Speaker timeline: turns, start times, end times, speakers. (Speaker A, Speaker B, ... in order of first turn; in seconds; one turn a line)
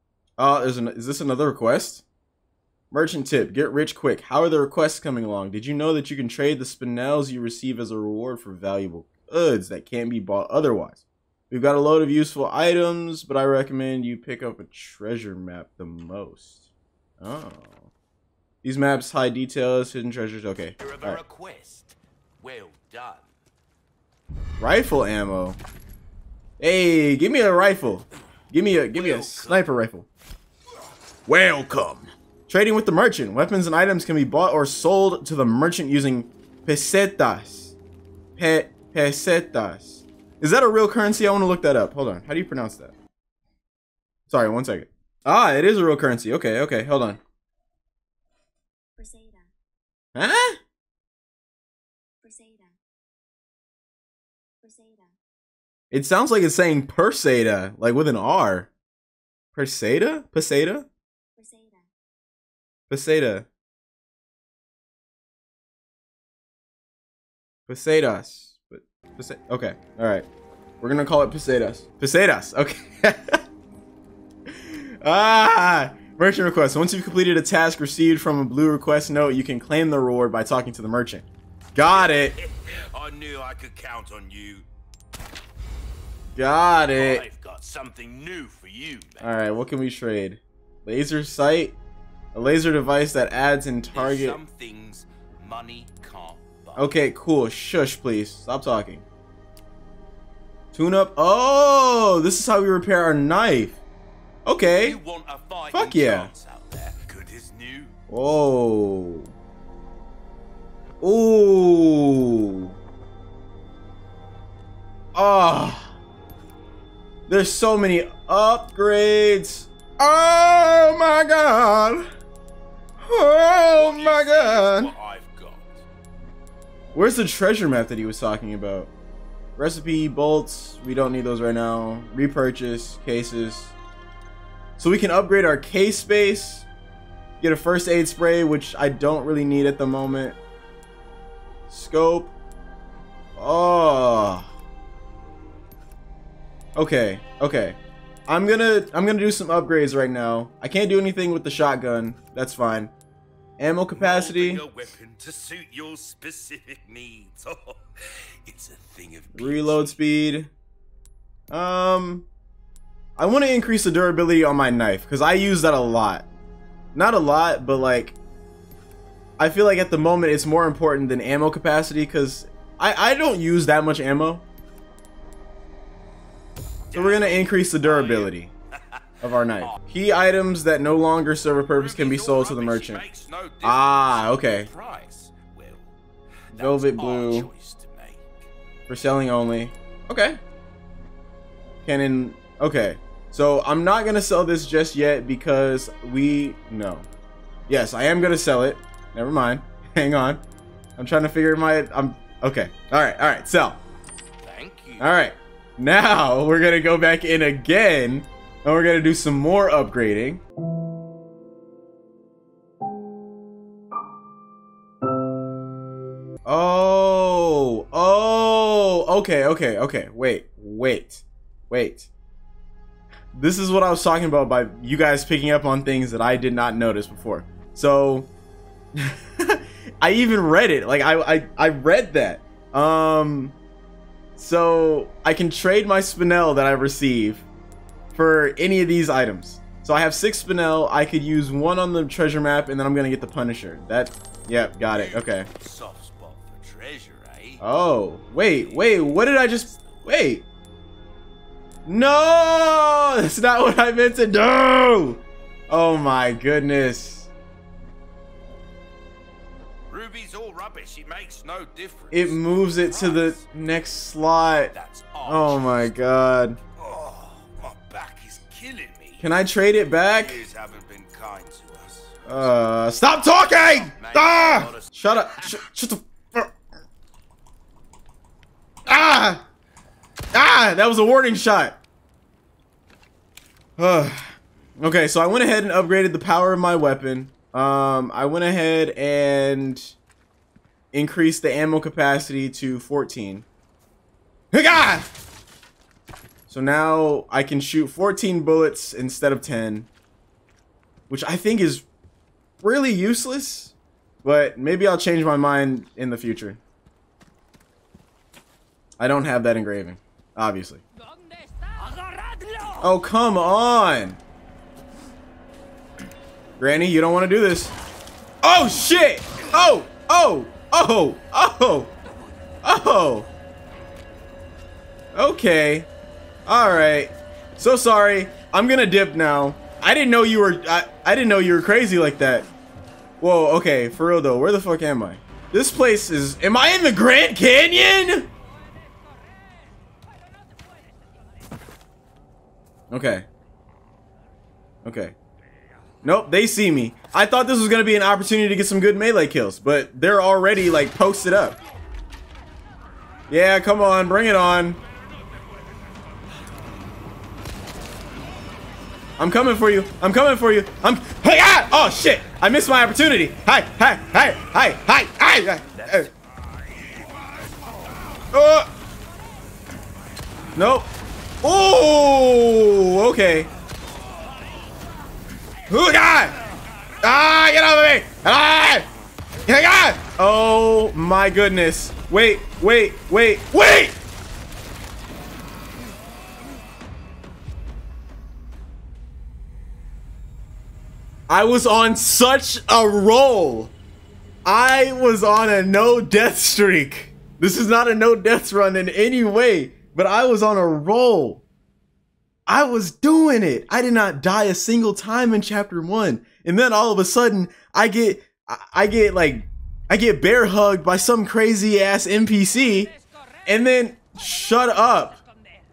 Speaker A: 0.4-2.0
Speaker A: 2.9-16.6
Speaker A: 17.2-17.9
Speaker A: 18.6-21.2
Speaker B: 20.8-23.3
Speaker A: 24.6-25.6
Speaker A: 26.6-30.1
Speaker B: 28.9-29.7
Speaker A: 31.3-37.8
Speaker A: 38.4-42.9
Speaker A: 44.3-47.2
Speaker C: 49.0-49.5
Speaker A: 50.1-50.6
Speaker C: 52.2-52.8
Speaker C: 54.6-55.2
Speaker A: 55.9-58.7
Speaker A: 59.5-60.9
Speaker C: 61.4-61.9
Speaker A: 62.9-63.5
Speaker A: 67.7-70.2
Speaker A: 70.8-73.4
Speaker A: 74.5-82.4
Speaker B: 81.9-84.7
Speaker A: 86.4-87.2
Speaker B: 87.0-89.3
Speaker A: 89.2-91.8
Speaker A: 92.3-94.4
Speaker B: 93.9-96.9
Speaker A: 96.8-99.0
Speaker A: 100.7-103.8
Speaker A: 104.5-105.0
Speaker B: 104.8-108.0
Speaker A: 105.7-106.3
Speaker A: 108.1-109.3
Speaker A: 111.0-112.7
Speaker A: 115.1-115.9
Speaker A: 117.3-122.1
Speaker A: 123.0-124.9
Speaker B: 123.7-125.8
Speaker A: 126.9-128.9
Speaker A: 129.6-133.7
Speaker A: 134.8-136.7
Speaker A: 137.4-140.4
Speaker A: 141.7-142.3
Speaker A: 143.4-144.5
Speaker A: 146.8-152.9
Speaker A: 153.6-154.6
Speaker B: 153.9-160.0
Speaker A: 159.3-160.5
Speaker A: 161.5-162.3
Speaker A: 163.2-166.3
Speaker A: 166.9-168.2
Speaker A: 169.4-174.4
Speaker B: 176.9-178.3
Speaker A: 176.9-178.5
Speaker A: 179.2-183.0
Speaker B: 181.7-185.9
Speaker A: 183.6-184.7
Speaker B: 186.5-188.5
Speaker A: 186.5-187.5
Speaker A: 188.9-190.4
Speaker A: 191.8-197.1
Speaker A: 197.7-200.4
Speaker A: 201.0-203.8
Speaker B: 204.4-205.1
Speaker A: 205.0-210.4
Speaker A: 216.5-222.1
Speaker A: 223.3-228.3
Speaker A: 229.0-233.6
Speaker A: 234.4-237.5
Speaker A: 238.1-245.5
Speaker B: 244.9-247.6
Speaker A: 247.6-250.4
Speaker B: 248.5-250.1
Speaker A: 251.9-257.3
Speaker B: 259.9-263.4
Speaker A: 262.1-264.7
Speaker B: 264.7-265.9
Speaker A: 265.3-266.6
Speaker B: 266.7-269.3
Speaker A: 269.2-270.4
Speaker B: 270.0-272.6
Speaker A: 272.3-276.5
Speaker B: 273.1-275.6
Speaker A: 278.9-279.4
Speaker A: 280.3-281.8
Speaker A: 283.8-289.9
Speaker A: 290.9-293.4
Speaker A: 294.5-295.1
Speaker A: 296.5-299.9
Speaker A: 301.1-301.9
Speaker A: 302.6-306.6
Speaker A: 309.0-310.8
Speaker B: 311.9-312.8
Speaker A: 312.8-314.2
Speaker A: 316.6-317.7
Speaker A: 318.4-321.9
Speaker A: 322.6-323.3
Speaker A: 325.1-325.9
Speaker A: 326.5-332.5
Speaker A: 333.2-338.3
Speaker A: 342.9-343.3
Speaker A: 344.8-345.1
Speaker A: 346.0-351.6
Speaker A: 353.3-354.8
Speaker A: 359.2-366.1
Speaker A: 368.3-368.7
Speaker A: 370.6-370.9
Speaker A: 371.4-373.5
Speaker A: 375.7-376.4
Speaker A: 377.0-378.9
Speaker A: 379.5-384.0
Speaker A: 391.3-393.7
Speaker A: 394.4-401.4
Speaker A: 402.5-412.9
Speaker A: 413.5-415.2